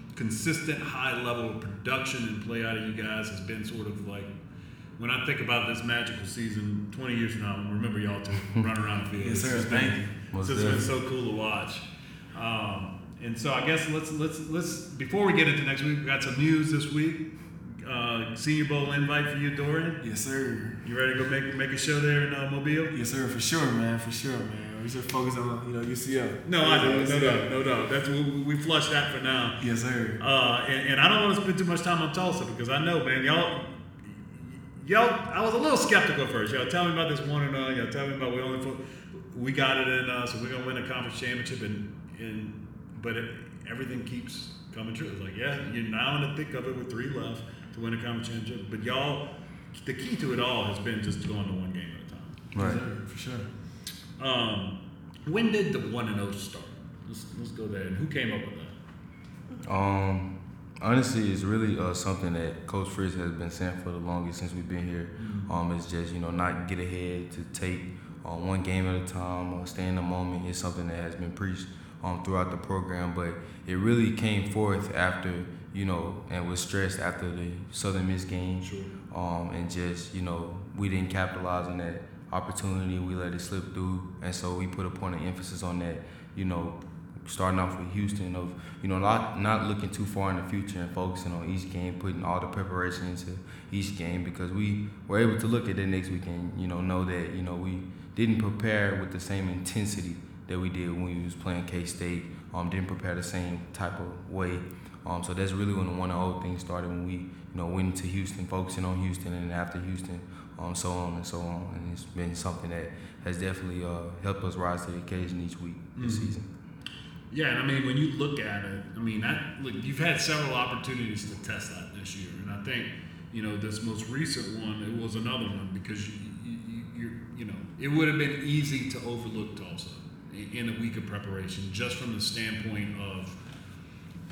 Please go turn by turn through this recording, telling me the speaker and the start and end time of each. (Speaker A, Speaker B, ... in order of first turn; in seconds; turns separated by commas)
Speaker A: 0.1-4.3, Speaker A: 5.0-17.2, Speaker B: 9.2-10.1, Speaker C: 10.3-10.8, Speaker A: 17.8-20.0, Speaker B: 20.0-20.8, Speaker A: 20.8-22.9, Speaker B: 22.9-27.5, Speaker A: 26.4-29.6, Speaker B: 29.6-30.2, Speaker A: 30.2-38.8, Speaker A: 39.3-49.2, Speaker A: 49.8-52.4, Speaker C: 52.5-52.8, Speaker B: 52.5-53.5, Speaker A: 54.2-54.8, Speaker A: 55.3-58.7, Speaker C: 59.6-116.5, Speaker A: 65.2-65.5, Speaker A: 78.6-78.9, Speaker A: 116.0-116.3, Speaker A: 117.3-133.4